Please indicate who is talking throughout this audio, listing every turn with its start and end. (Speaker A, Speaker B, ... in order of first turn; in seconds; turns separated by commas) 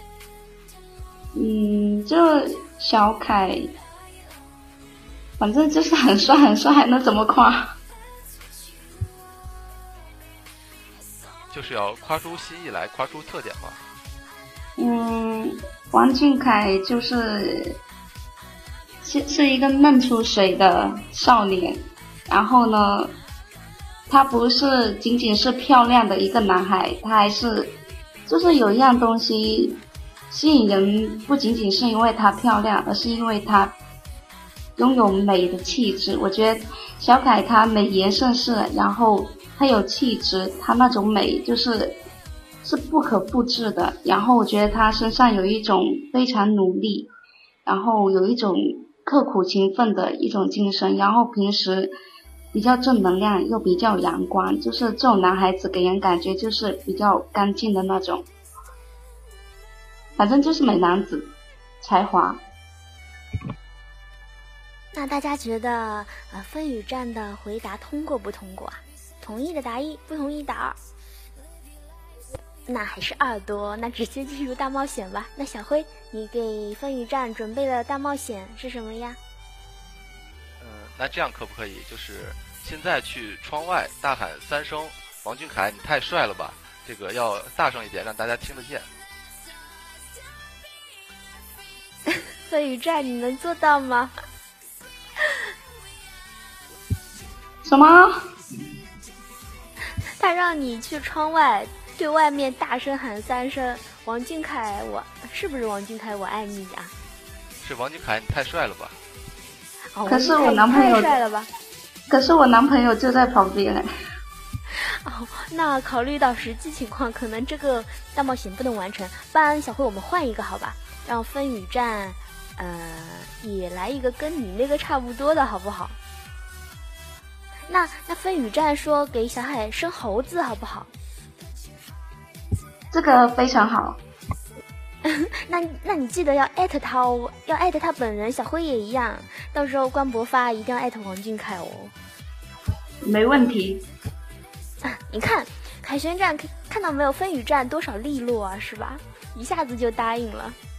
Speaker A: 1.3-3.7, Speaker A: 5.4-7.8, Speaker B: 11.5-13.8, Speaker A: 14.8-17.8, Speaker A: 19.0-23.1, Speaker A: 24.1-27.8, Speaker A: 28.3-33.8, Speaker A: 34.8-42.0, Speaker A: 42.6-47.1, Speaker A: 47.6-51.9, Speaker A: 52.5-58.2, Speaker A: 60.2-62.4, Speaker C: 64.9-70.8, Speaker C: 72.7-79.2, Speaker B: 80.6-88.9, Speaker C: 92.2-94.1, Speaker A: 97.6-98.2, Speaker C: 100.2-106.9, Speaker B: 107.6-109.0, Speaker C: 109.9-111.5, Speaker A: 110.0-111.1, Speaker A: 112.1-113.9, Speaker C: 114.7-126.0, Speaker C: 127.7-130.9, Speaker A: 132.9-134.0, Speaker C: 135.0-141.9, Speaker A: 143.0-143.8, Speaker C: 144.8-150.6